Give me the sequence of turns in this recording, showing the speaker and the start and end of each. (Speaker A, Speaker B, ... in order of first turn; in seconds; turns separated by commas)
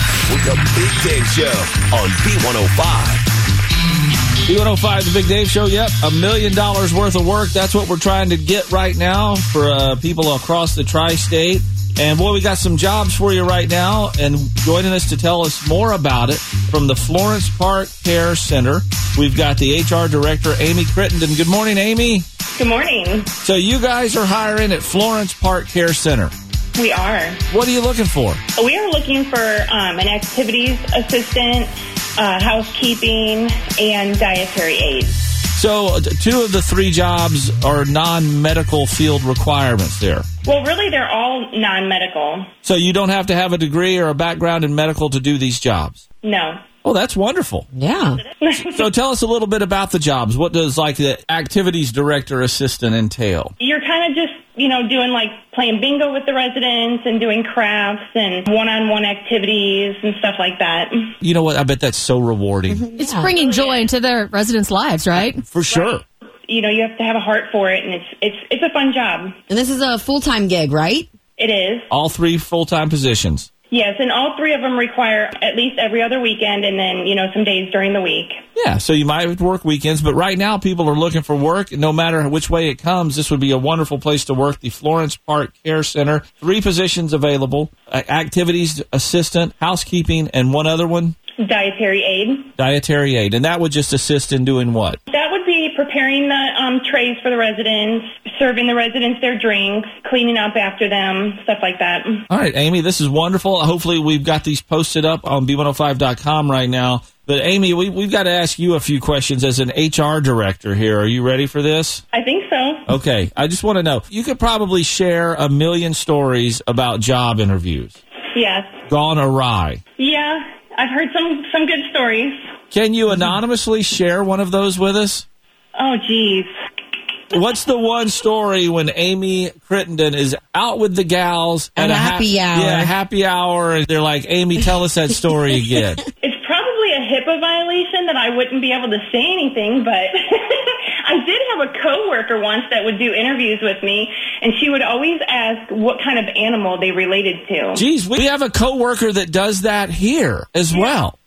Speaker A: 0.3-3.2, Speaker B: 4.5-22.3, Speaker C: 22.6-23.3, Speaker B: 23.4-26.3, Speaker C: 26.8-27.4, Speaker B: 27.5-28.4, Speaker C: 28.6-35.2, Speaker B: 35.5-40.3, Speaker C: 40.5-42.5, Speaker B: 42.6-46.0, Speaker C: 46.2-46.6, Speaker B: 46.8-47.7, Speaker D: 47.7-48.2, Speaker C: 48.2-48.9, Speaker B: 48.5-53.5, Speaker C: 53.6-61.1, Speaker B: 61.2-62.9, Speaker D: 62.7-63.3, Speaker E: 63.0-65.4, Speaker C: 63.3-63.9, Speaker B: 65.5-66.0, Speaker C: 65.7-69.4, Speaker D: 69.5-71.1, Speaker C: 71.4-71.9, Speaker B: 71.9-73.5, Speaker C: 73.7-78.4, Speaker B: 78.5-91.1, Speaker C: 91.4-92.5, Speaker B: 92.6-95.0, Speaker C: 95.1-102.3, Speaker B: 102.3-112.0, Speaker C: 112.1-112.9, Speaker B: 112.9-118.0, Speaker C: 118.3-118.7, Speaker B: 118.9-119.8, Speaker C: 120.0-122.3, Speaker B: 122.7-125.2, Speaker C: 125.8-126.5, Speaker B: 127.3-136.0, Speaker D: 131.8-132.9, Speaker C: 136.2-147.8, Speaker B: 147.8-151.1